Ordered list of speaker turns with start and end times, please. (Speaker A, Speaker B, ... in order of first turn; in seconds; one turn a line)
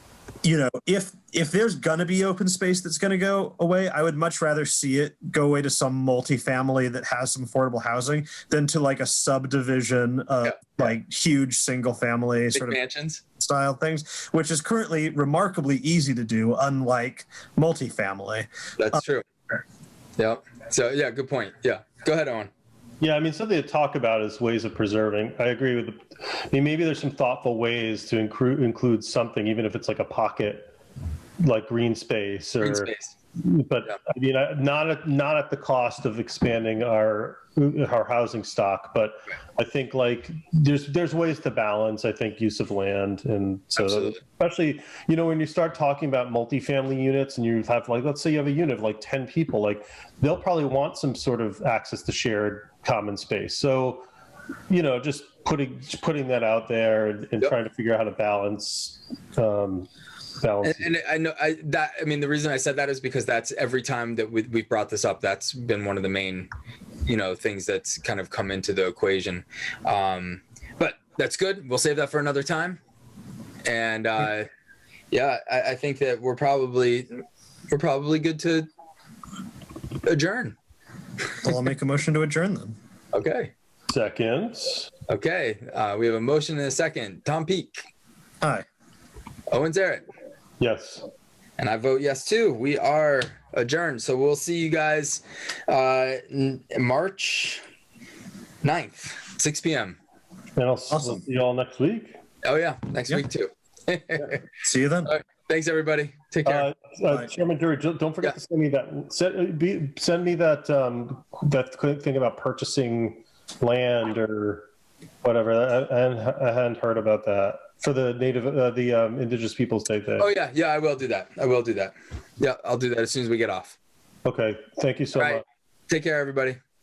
Speaker A: 0.4-12.8
Speaker B: 12.5-13.2
Speaker A: 13.4-19.0
Speaker B: 18.8-19.2
Speaker B: 20.2-22.5
Speaker C: 23.0-30.7
Speaker C: 31.4-54.1
Speaker B: 32.6-33.1
Speaker B: 43.8-44.2
Speaker C: 54.7-59.9
Speaker C: 60.4-60.9
Speaker B: 60.6-66.5
Speaker B: 67.0-72.8
Speaker B: 73.6-74.5
Speaker B: 75.1-78.7
Speaker B: 80.0-80.5
Speaker A: 81.4-82.7
Speaker B: 83.1-83.5
Speaker C: 83.9-84.9
Speaker B: 85.1-87.8
Speaker B: 89.5-90.0
Speaker C: 90.6-91.0
Speaker B: 91.6-97.6
Speaker B: 98.6-100.0
Speaker C: 100.6-102.2
Speaker A: 100.9-101.2
Speaker B: 102.4-104.5
Speaker A: 104.6-105.2
Speaker B: 105.0-106.7
Speaker C: 106.5-114.7
Speaker C: 115.2-120.3
Speaker B: 120.2-123.8
Speaker C: 124.2-125.4
Speaker B: 125.1-126.6